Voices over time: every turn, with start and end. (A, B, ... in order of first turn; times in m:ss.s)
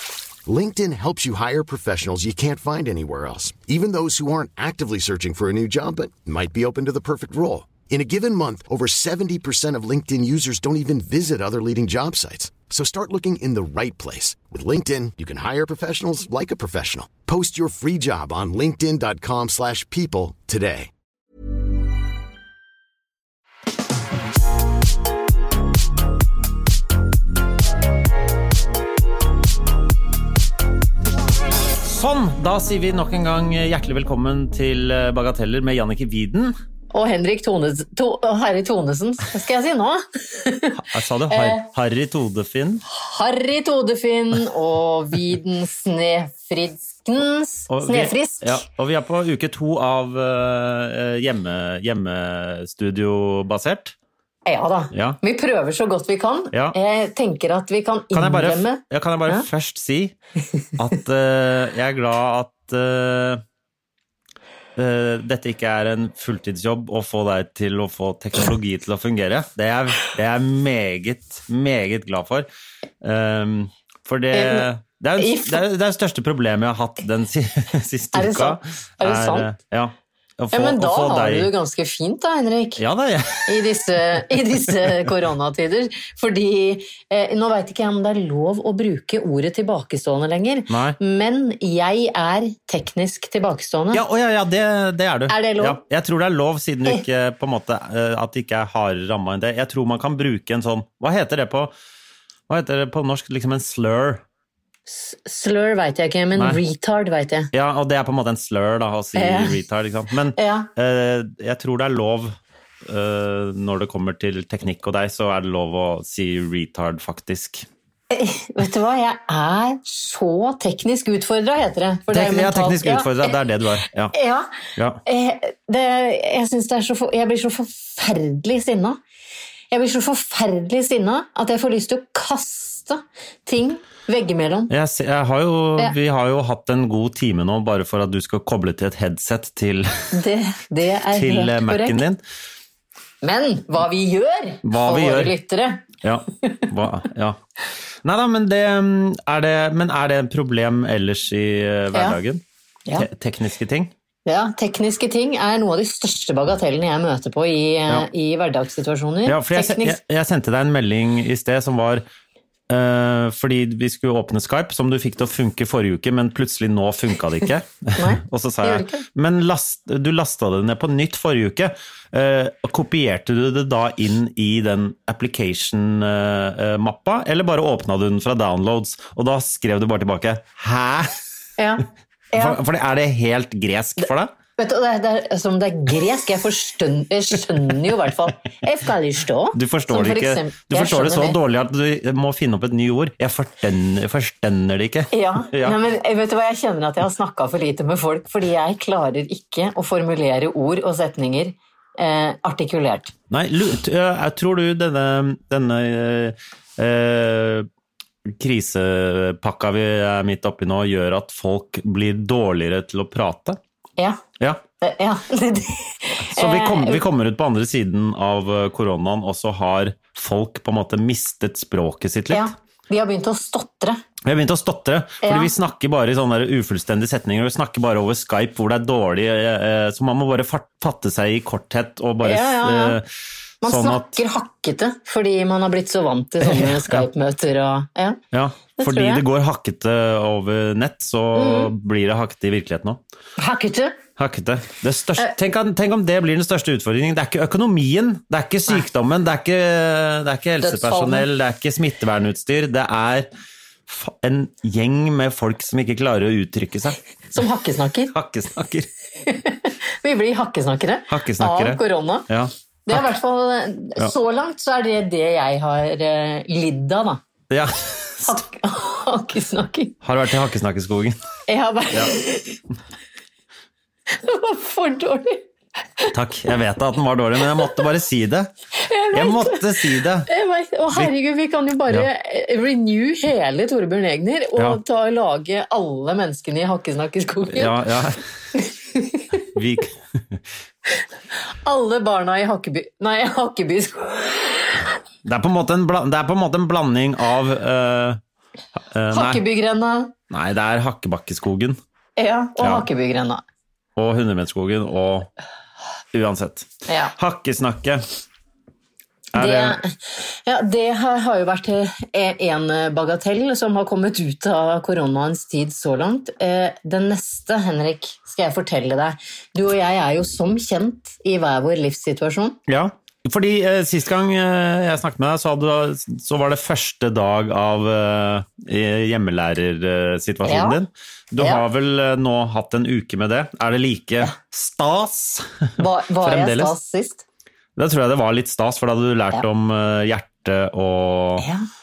0:00.5-0:20.9 A
0:31.8-0:36.6 B
0:36.9-0:41.6 C
0:40.8-0:42.8 B
0:42.9-0:48.6 C
0:47.7-0:54.0 B
0:54.5-0:59.5 C
0:54.9-0:55.2 B
0:58.1-1:00.2 B
1:00.8-1:03.4 B
1:04.8-1:12.5 B
1:13.0-1:21.5 B
1:14.3-1:15.6 C
1:18.1-1:19.5 C
1:20.5-1:22.8 C
1:22.8-1:24.9 B
1:23.5-1:34.0 C
1:30.7-1:31.0 B
1:33.9-1:41.7 B
1:35.3-1:35.8 C
1:42.5-1:44.2 B
1:44.9-1:47.5 C
1:46.4-1:46.6 B
1:47.5-1:57.7 B
1:49.2-1:49.6 C
1:50.4-1:50.7 C
1:58.1-2:03.3 C
2:02.1-2:04.1 B
2:04.1-2:04.5 C
2:04.8-2:05.0 B
2:05.0-2:09.0 C
2:09.7-2:14.7 C
2:14.7-2:20.2 B
2:20.1-2:22.0 C
2:21.1-2:22.2 B
2:23.2-2:25.9 C
2:24.6-2:25.4 B
2:26.0-2:27.4 B
2:28.0-2:32.4 B
2:31.9-2:32.2 C
2:33.0-2:33.9 B
2:34.3-2:40.0 C
2:39.2-2:42.0 B
2:42.7-3:01.2 B
2:48.0-2:49.1 C
3:01.6-3:02.6 C
3:02.3-3:04.3 B
3:04.6-3:11.4 C
3:09.5-3:15.8 B
3:15.1-3:23.1 C
3:23.3-3:27.7 B
3:28.3-3:33.6 B
3:34.8-3:37.0 C
3:36.2-3:42.5 B
3:42.3-3:44.0 C
3:44.2-3:53.1 B
3:45.2-3:45.5 C
3:52.2-3:53.0 C
3:53.6-3:58.2 C
3:53.6-3:54.2 B
3:56.4-3:57.1 B
3:58.3-4:03.0 B
3:58.8-3:59.2 C
4:01.4-4:01.7 C
4:03.4-4:04.0 C
4:04.2-4:13.3 B
4:10.6-4:11.3 C
4:13.9-4:17.0 B
4:17.3-4:18.1 C
4:18.1-4:18.9 B
4:19.2-4:22.3 C
4:21.1-4:23.0 B
4:22.9-4:27.2 C
4:27.5-4:28.4 B
4:28.3-4:30.0 C
4:30.0-4:31.2 B
4:31.5-4:32.6 C
4:34.1-4:35.5 C
4:36.1-4:38.5 B
4:38.8-4:47.8 C
4:39.1-4:40.3 B
4:44.6-4:44.8 B
4:47.5-4:48.2 B
4:48.6-4:49.4 C
4:49.5-4:50.4 B
4:51.6-4:55.0 C
4:55.2-4:58.2 B
4:58.8-4:59.4 B
4:59.1-5:00.1 C
5:00.3-5:01.8 B
5:02.2-5:03.4 C
5:02.6-5:02.9 B
5:04.0-5:05.3 B
5:06.1-5:08.0 B
5:06.9-5:07.2 C
5:09.3-5:09.8 B
5:09.4-5:22.6 C
5:22.7-5:36.8 B
5:30.4-5:30.8 C
5:35.8-5:37.2 C
5:37.8-5:41.5 B
5:41.4-5:41.7 C